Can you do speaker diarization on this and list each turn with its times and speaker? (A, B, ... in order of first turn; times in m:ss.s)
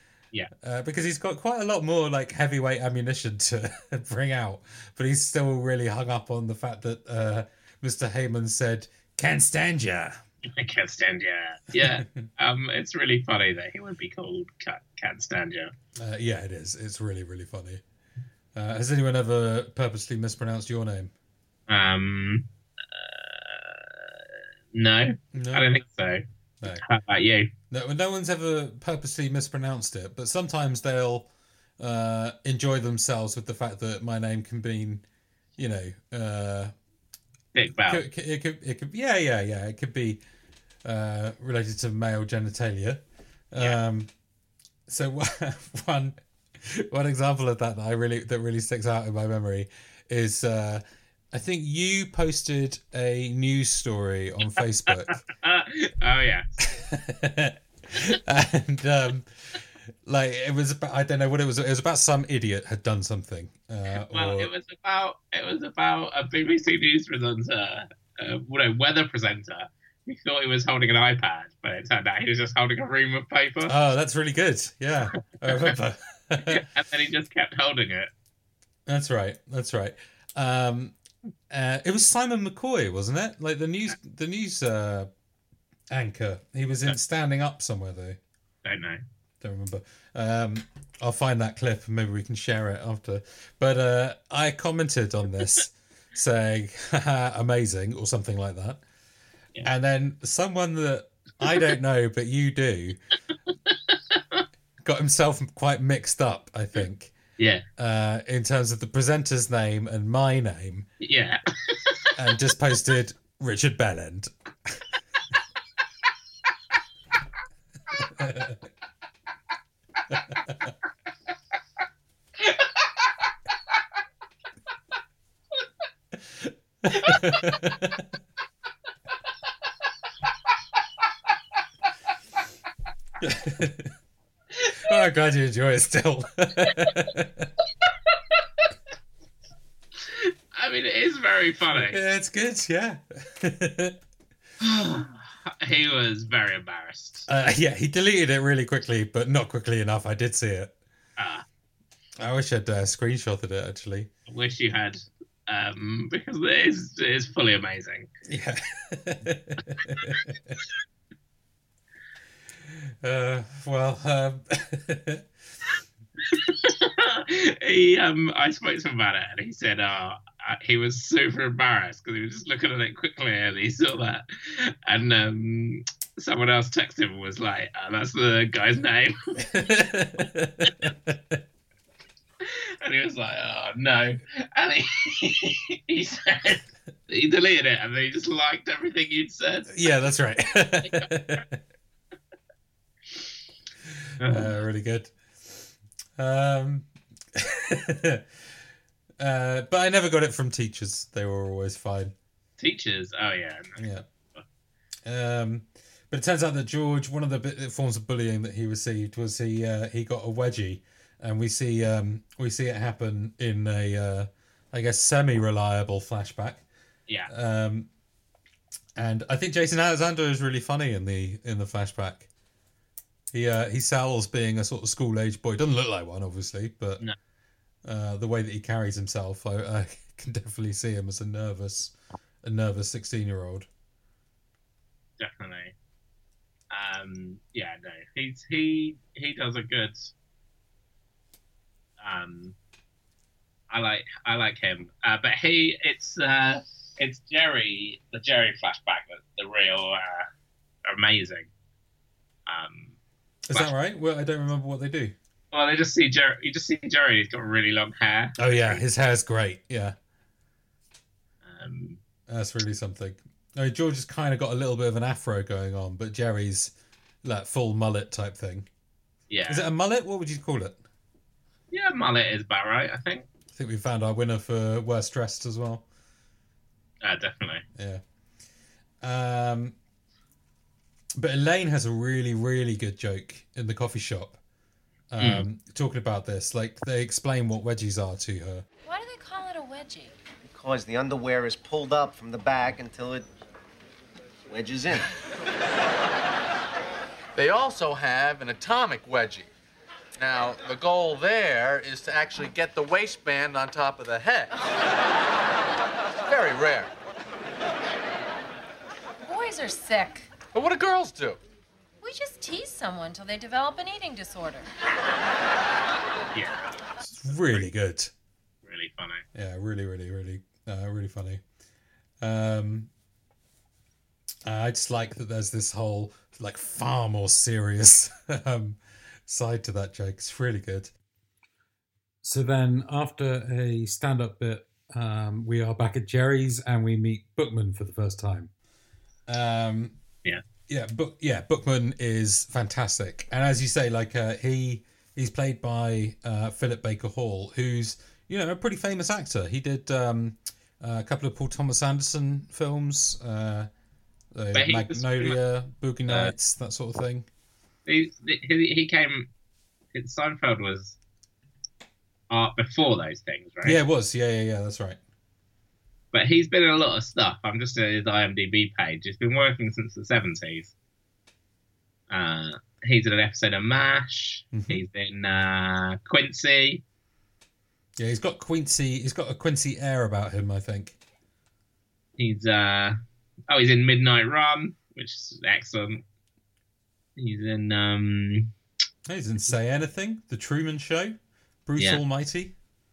0:00.6-0:10.2 A
0:10.4-0:15.7 B
0:11.7-0:12.3 A
0:16.0-0:17.8 A
0:18.6-0:21.1 A
0:21.7-0:24.2 B
0:24.7-0:27.5 B
0:25.3-0:25.7 A
0:27.7-0:35.0 A
0:35.6-0:36.7 A
0:37.5-0:38.0 B
0:37.9-0:40.2 A
0:40.8-0:44.1 A
0:44.9-0:55.2 A
0:54.9-0:56.6 B
0:56.6-1:04.5 A
1:03.9-1:13.7 B
1:13.6-1:16.6 A
1:16.4-1:18.1 B
1:18.9-1:21.0 A
1:21.5-1:25.1 A
1:25.9-1:28.2 A
1:28.6-1:29.0 B
1:29.4-1:38.8 A
1:39.6-1:43.0 A
1:43.7-1:44.4 B
1:44.8-1:47.2 A
1:47.4-1:47.6 B
1:47.8-1:50.9 A
1:51.0-1:52.1 B
1:52.2-1:54.8 A
1:58.0-1:58.6 A
2:00.1-2:00.5 A
2:02.4-2:02.9 B
2:06.4-2:08.1 A
2:07.0-2:07.4 B
2:13.2-2:13.9 A
2:14.7-2:17.5 A
2:20.0-2:22.0 B
2:21.7-2:24.0 A
2:24.6-2:27.3 B
2:27.3-2:30.7 A
2:31.2-2:31.4 B
2:32.2-2:34.1 A
2:34.3-2:38.1 B
2:38.3-2:40.6 A
2:42.7-2:45.2 A
2:46.3-2:59.6 B
2:59.5-3:01.4 A
3:02.4-3:09.9 B
3:09.7-3:11.6 A
3:14.2-3:14.5 B
3:14.2-3:18.2 A
3:19.2-3:22.1 A
3:22.6-3:23.8 B
3:23.8-3:24.0 A
3:25.0-3:36.6 A
3:37.3-3:37.9 A
3:39.0-3:42.3 A
3:43.3-3:47.0 A
3:47.8-3:53.7 A
3:55.2-3:55.7 B
3:56.7-4:00.1 B
4:02.0-4:02.6 B
4:03.7-4:10.3 B
4:10.8-4:11.5 B
4:12.5-4:13.0 B
4:13.5-4:15.2 A
4:15.5-4:18.8 B
4:18.4-4:20.0 A
4:21.4-4:22.0 B
4:22.3-4:28.7 A
4:29.3-4:29.6 B
4:29.5-4:30.8 A
4:31.7-4:33.3 B
4:33.5-4:35.8 A
4:37.0-4:37.6 B
4:37.8-4:38.0 A
4:39.0-4:39.8 A
4:41.2-4:44.4 A
4:45.1-4:48.6 A
4:45.2-4:45.5 B
4:48.9-4:50.1 C
4:50.5-4:53.3 D
4:54.5-4:55.1 D
4:57.4-4:59.5 E
5:00.2-5:04.6 E
5:06.2-5:06.9 E
5:09.2-5:10.3 C
5:10.5-5:11.4 E
5:12.0-5:14.7 C
5:16.3-5:16.6 B
5:17.0-5:18.1 A
5:18.6-5:19.2 B
5:19.3-5:21.4 A
5:22.2-5:22.9 A
5:24.4-5:30.9 A
5:32.2-5:38.5 A
5:39.3-5:40.0 A
5:40.7-5:53.7 A
5:54.3-5:57.3 A
5:54.5-5:55.4 B
5:56.1-5:56.3 B
5:57.9-5:59.3 B
5:59.9-6:01.0 B
6:02.3-6:03.8 B
6:03.6-6:05.0 A
6:06.1-6:10.7 B
6:12.1-6:16.8 B
6:14.5-6:14.8 A
6:18.0-6:21.0 A
6:22.2-6:23.0 B
6:23.5-6:26.0 B
6:27.2-6:28.5 B
6:29.1-6:32.5 A